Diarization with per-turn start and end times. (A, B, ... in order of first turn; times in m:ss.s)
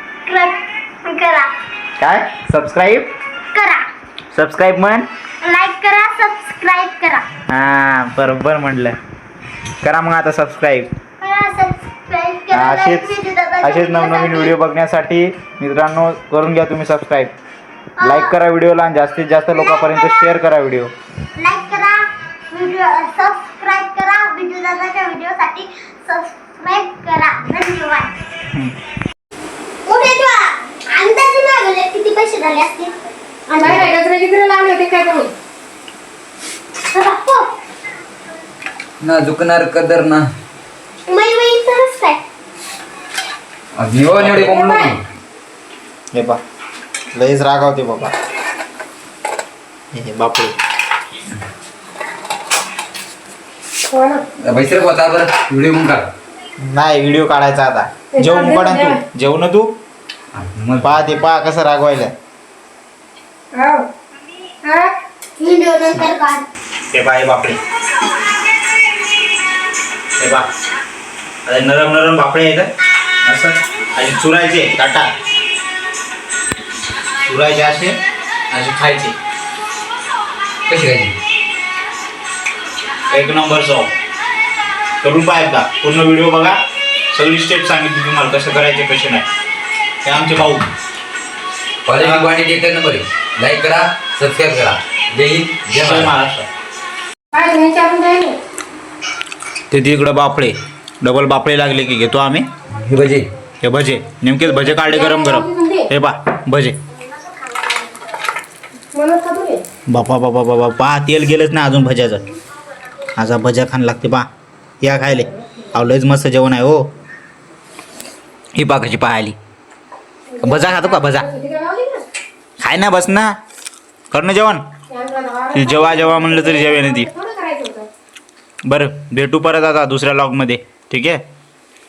0:00.3-0:01.5 A
0:02.0-0:03.1 B
0:03.5-0:03.8 A
0:04.3-0:05.1 B
0:05.4-0:07.3 A
0:07.5-0:09.0 B
0:09.8-0:10.9 B
0:11.2-0:14.5 A
0:12.5-0:17.3 B
0:18.0-0:18.3 A
0:18.0-0:20.9 B
0:19.5-0:20.3 A
0:21.4-0:28.1 A
0:29.9-0:33.0 A
0:33.5-0:33.9 A
0:33.5-0:35.3 C
0:36.9-0:37.5 A
0:39.0-0:40.3 D
0:41.1-0:42.2 A
0:43.8-0:45.0 D
0:44.3-0:45.0 C
0:46.1-0:46.4 B
0:47.1-0:48.1 B
0:49.9-0:50.5 B
0:53.9-0:54.2 C
0:54.4-0:56.1 D
0:56.6-0:59.7 B
0:58.1-0:59.0 C
1:00.3-1:01.0 D
1:00.8-1:02.1 B
1:03.6-1:03.9 C
1:04.6-1:04.9 C
1:05.4-1:06.5 A
1:06.9-1:07.6 B
1:10.2-1:10.5 B
1:11.5-1:12.7 B
1:13.2-1:15.1 B
1:17.3-1:18.0 B
1:18.5-1:19.2 B
1:20.7-1:21.2 D
1:23.1-1:23.9 B
1:25.0-1:26.6 B
1:27.1-1:29.2 B
1:30.0-1:30.7 B
1:31.9-1:36.1 D
1:32.0-1:32.3 B
1:35.8-1:36.5 B
1:37.3-1:38.4 C
1:39.7-1:42.5 B
1:42.7-1:43.3 D
1:43.6-1:46.8 B
1:44.8-1:45.9 C
1:48.9-1:49.6 C
1:49.9-1:52.3 B
1:53.2-1:54.3 B
1:54.8-1:56.8 B
1:55.2-1:55.7 C
1:58.6-1:59.4 B
2:00.3-2:02.0 C
2:00.4-2:01.3 B
2:02.6-2:03.3 B
2:04.1-2:04.6 B
2:04.9-2:07.9 C
2:05.5-2:07.1 B
2:08.7-2:11.2 B